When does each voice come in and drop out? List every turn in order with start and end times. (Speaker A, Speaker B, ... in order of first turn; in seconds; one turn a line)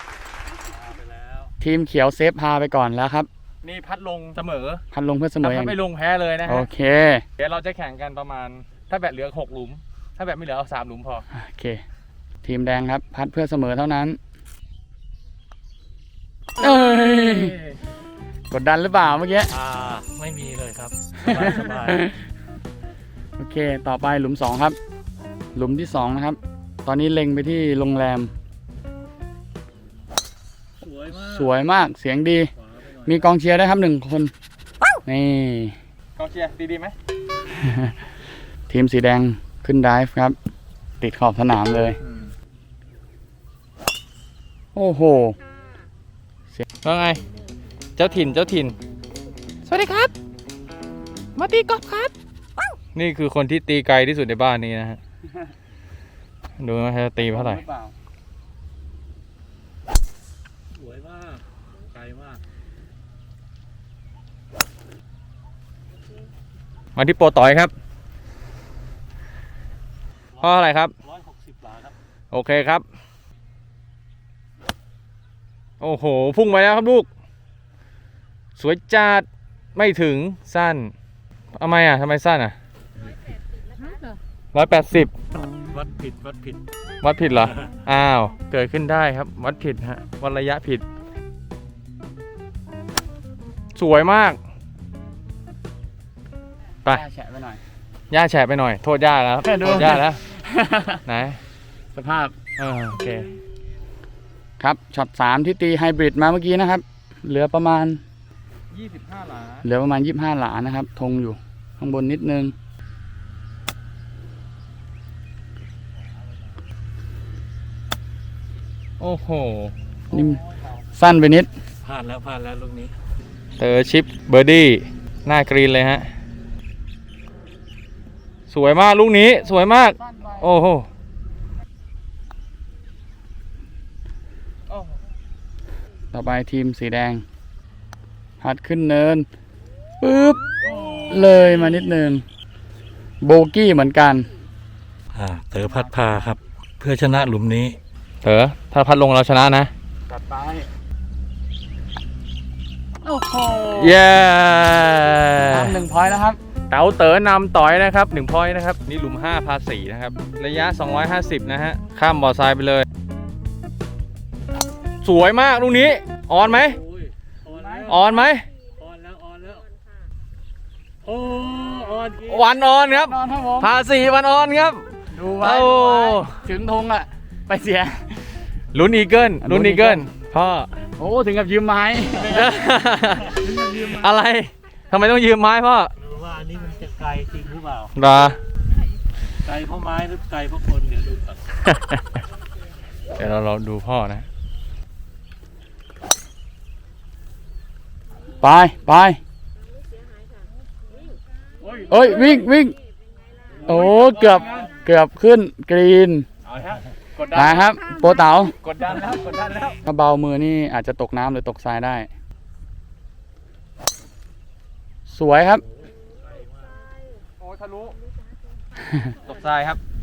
Speaker A: 0.6-1.5
Speaker B: 1.6-3.3
Speaker C: 3.6-4.8
Speaker B: 4.9-5.8
Speaker C: 5.4-6.7
Speaker B: 6.5-7.2
Speaker C: 7.4-11.2
Speaker B: 11.3-11.8
Speaker B: 12.4-14.2
Speaker B: 16.6-17.6
Speaker C: 16.6-17.7
Speaker B: 18.5-19.5
Speaker A: 19.5-22.0
Speaker B: 21.3-22.2
Speaker B: 23.4-24.8
Speaker B: 25.5-28.3
Speaker A: 30.8-31.5
Speaker B: 31.2-32.5
Speaker A: 32.6-33.3
Speaker B: 33.0-34.3
Speaker B: 35.0-35.8
Speaker C: 36.1-36.9
Speaker B: 37.5-37.9
Speaker B: 38.7-40.4
Speaker B: 41.0-42.0
Speaker B: 44.7-45.4
Speaker C: 46.8-47.2
Speaker C: 48.0-48.8
Speaker C: 49.6-50.1
Speaker C: 51.4-52.1
Speaker C: 52.9-55.0
Speaker C: 56.6-57.6
Speaker B: 57.2-57.9
Speaker A: 60.7-62.4
Speaker C: 67.0-67.7
Speaker A: 70.4-72.0
Speaker C: 70.4-70.9
Speaker C: 72.3-72.8
Speaker C: 75.8-77.1
Speaker C: 78.5-80.9
Speaker C: 81.5-82.5
Speaker C: 84.5-85.1
Speaker A: 85.5-86.6
Speaker C: 87.0-90.8
Speaker A: 87.5-87.8
Speaker C: 93.7-94.4
Speaker B: 96.9-97.6
Speaker C: 98.1-100.2
Speaker B: 99.4-101.0
Speaker C: 101.0-101.4
Speaker B: 101.9-102.3
Speaker C: 102.6-103.3
Speaker B: 104.6-108.0
Speaker C: 108.7-109.7
Speaker B: 109.6-112.5
Speaker C: 119.0-119.7
Speaker B: 120.1-120.4
Speaker B: 120.9-121.5
Speaker A: 121.8-123.0
Speaker C: 123.6-126.1
Speaker C: 128.5-130.9
Speaker B: 130.0-130.5
Speaker B: 136.1-137.2
Speaker B: 138.4-139.3
Speaker B: 140.0-140.5
Speaker C: 140.6-141.6
Speaker B: 141.1-142.2
Speaker B: 143.2-144.3
Speaker A: 145.1-147.8
Speaker C: 148.2-149.7
Speaker B: 150.1-150.7
Speaker B: 153.0-154.0
Speaker C: 153.7-155.8
Speaker B: 155.5-156.4
Speaker C: 156.7-162.8
Speaker C: 165.0-166.8
Speaker A: 166.6-168.2
Speaker B: 167.5-167.9
Speaker C: 167.9-168.5
Speaker A: 168.8-169.6
Speaker A: 171.0-172.5
Speaker C: 172.2-176.4
Speaker B: 172.9-173.7
Speaker B: 175.1-178.1
Speaker C: 178.7-180.7
Speaker B: 179.4-180.1
Speaker B: 181.0-182.5
Speaker C: 182.2-185.9
Speaker B: 183.3-184.0
Speaker A: 186.0-187.9
Speaker C: 187.9-188.4
Speaker A: 189.4-191.4
Speaker C: 191.6-192.0
Speaker C: 193.2-194.2
Speaker B: 198.4-199.2
Speaker C: 201.7-202.4
Speaker B: 201.9-202.8
Speaker C: 203.6-204.6
Speaker B: 203.6-206.3
Speaker A: 203.7-204.7
Speaker C: 206.5-207.8
Speaker B: 207.3-208.5
Speaker C: 208.6-209.8
Speaker B: 209.8-212.1
Speaker B: 215.1-215.6
Speaker A: 215.8-216.8
Speaker C: 217.4-218.0
Speaker C: 219.2-219.8